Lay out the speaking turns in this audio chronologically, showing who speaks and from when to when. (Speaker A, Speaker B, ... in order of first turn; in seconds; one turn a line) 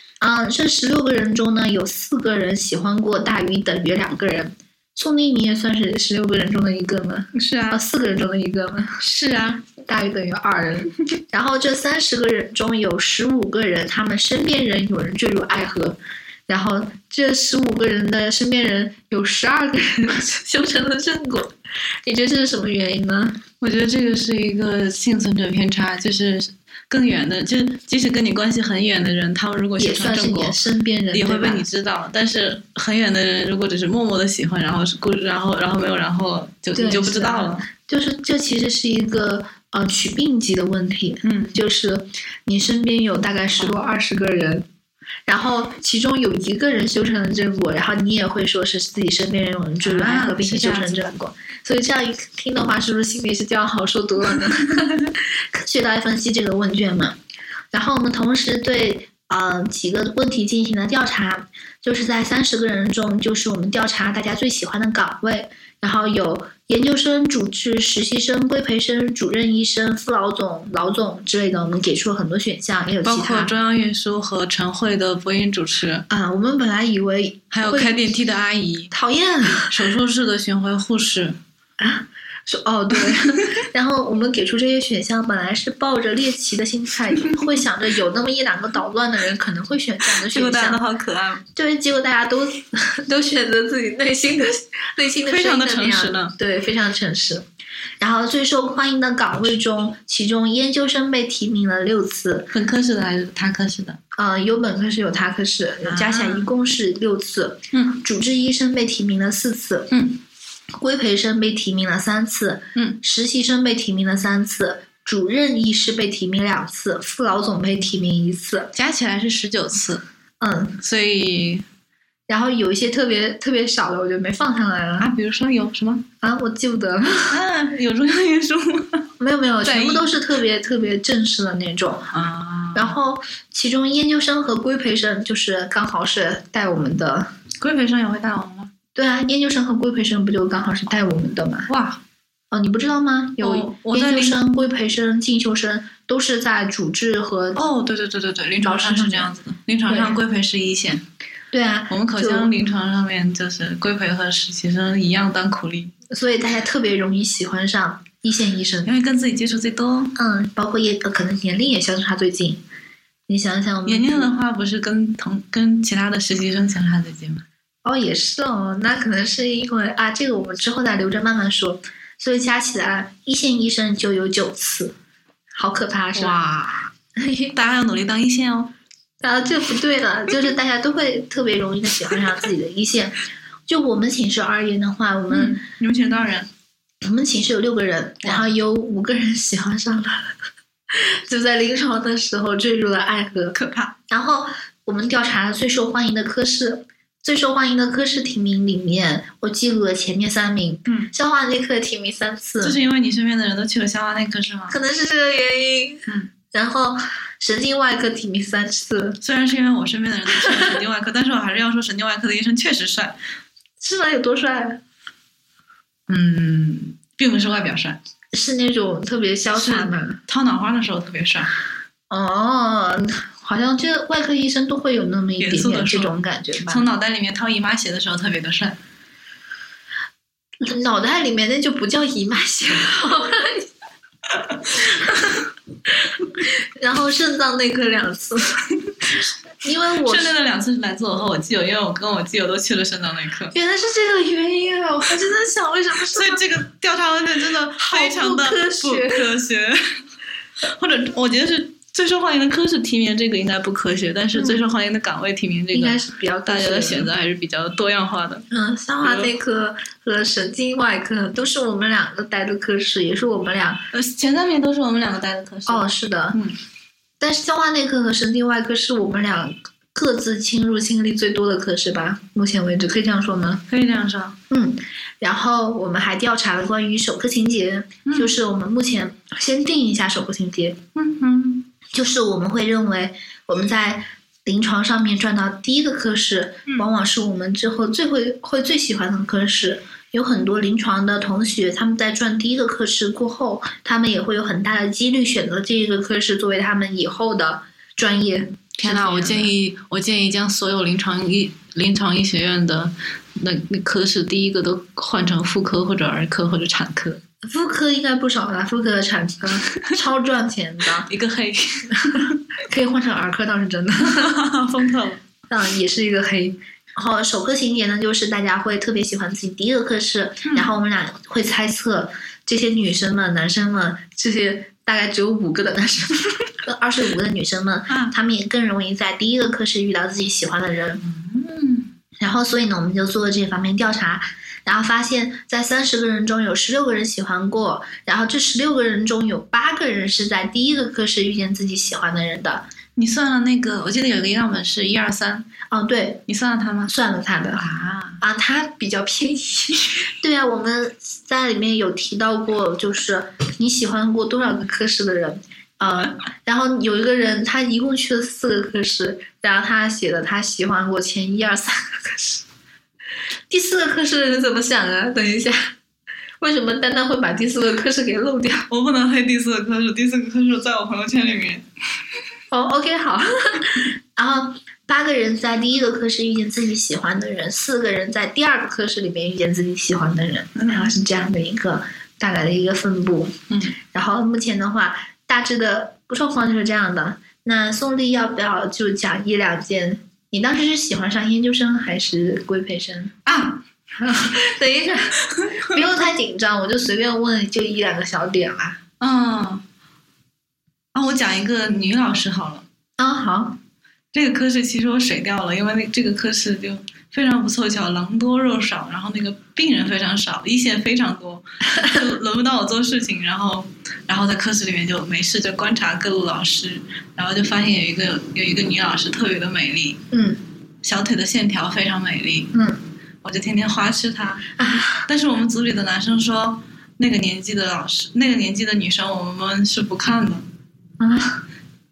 Speaker A: 0.2-9.0
Speaker B: 7.3-7.8
Speaker B: 9.0-9.6
Speaker A: 9.7-23.4
Speaker B: 23.6-30.6
Speaker A: 29.8-31.6
Speaker B: 31.1-37.7
Speaker A: 36.8-44.7
Speaker B: 41.2-41.6
Speaker A: 45.3-57.2
Speaker B: 49.8-51.1
Speaker A: 57.7-73.5
Speaker B: 73.0-76.0
Speaker A: 76.1-78.2
Speaker B: 77.5-78.9
Speaker A: 78.9-79.7
Speaker B: 79.6-81.4
Speaker A: 81.8-90.8
Speaker B: 90.1-91.5
Speaker A: 91.5-97.5
Speaker B: 95.2-96.3
Speaker A: 98.0-102.5
Speaker B: 102.5-104.0
Speaker A: 104.1-109.9
Speaker B: 105.8-106.5
Speaker B: 107.7-108.0
Speaker B: 109.9-110.2
Speaker A: 110.8-118.7
Speaker B: 112.8-113.0
Speaker B: 118.7-120.0
Speaker A: 120.4-120.8
Speaker B: 120.8-121.7
Speaker A: 122.3-125.1
Speaker B: 125.0-126.0
Speaker A: 126.2-127.4
Speaker B: 127.2-129.1
Speaker A: 129.2-132.1
Speaker B: 129.6-130.1
Speaker B: 132.1-132.9
Speaker A: 132.7-137.3
Speaker B: 137.6-138.7
Speaker A: 138.9-141.7
Speaker B: 141.7-142.0
Speaker A: 142.5-147.6
Speaker B: 143.4-144.4
Speaker B: 147.6-151.1
Speaker A: 148.6-149.3
Speaker A: 149.9-150.2
Speaker A: 151.5-152.5
Speaker B: 151.9-155.9
Speaker A: 156.1-158.9
Speaker B: 158.9-160.1
Speaker A: 160.2-162.6
Speaker A: 163.3-164.3
Speaker B: 163.8-167.4
Speaker A: 167.8-174.9
Speaker A: 175.6-176.4
Speaker B: 176.2-176.9
Speaker A: 177.2-177.6
Speaker B: 177.5-178.7
Speaker A: 179.2-185.6
Speaker B: 185.3-186.5
Speaker A: 187.0-190.3
Speaker A: 190.9-193.6
Speaker B: 193.5-193.9
Speaker A: 194.1-202.8
Speaker B: 202.6-204.8
Speaker A: 204.7-209.2
Speaker B: 209.2-213.2
Speaker A: 210.4-210.8
Speaker A: 213.8-214.8
Speaker B: 216.1-218.0
Speaker A: 218.3-220.2
Speaker B: 219.5-221.5
Speaker A: 222.1-226.9
Speaker B: 225.4-228.8
Speaker A: 230.6-233.7
Speaker A: 234.9-235.4
Speaker A: 236.0-238.7
Speaker A: 239.6-240.3
Speaker B: 240.0-243.6
Speaker A: 243.5-246.5
Speaker B: 246.0-249.8
Speaker A: 247.8-249.3
Speaker B: 250.6-258.4
Speaker A: 254.3-254.6
Speaker A: 255.7-257.1
Speaker A: 258.5-263.8
Speaker B: 259.0-259.3
Speaker B: 263.9-266.6
Speaker A: 265.7-266.4
Speaker A: 267.2-273.6
Speaker B: 273.7-274.4
Speaker A: 274.5-280.8
Speaker B: 278.1-278.3
Speaker B: 280.9-281.7
Speaker A: 281.9-299.5
Speaker B: 298.8-307.2
Speaker A: 307.4-311.1
Speaker B: 311.0-311.9
Speaker A: 312.0-314.4
Speaker B: 314.1-315.2
Speaker A: 315.5-331.0
Speaker B: 327.9-328.1
Speaker B: 331.0-331.9
Speaker A: 332.2-342.7
Speaker B: 343.0-345.5
Speaker A: 345.7-346.2
Speaker B: 346.3-346.9
Speaker A: 346.9-347.7
Speaker B: 347.6-348.2
Speaker A: 348.2-362.4
Speaker A: 363.5-365.7
Speaker A: 366.4-368.7
Speaker B: 368.7-371.7
Speaker A: 372.5-383.4
Speaker B: 380.6-380.9
Speaker B: 383.5-383.8
Speaker A: 383.9-393.2
Speaker B: 393.3-393.6
Speaker A: 394.0-398.8
Speaker B: 399.0-399.6
Speaker B: 400.9-402.6
Speaker A: 403.0-403.6
Speaker B: 404.1-420.0
Speaker A: 420.1-420.4
Speaker B: 420.8-422.5
Speaker A: 422.5-422.8
Speaker B: 423.2-430.5
Speaker A: 424.6-425.1
Speaker A: 431.0-431.4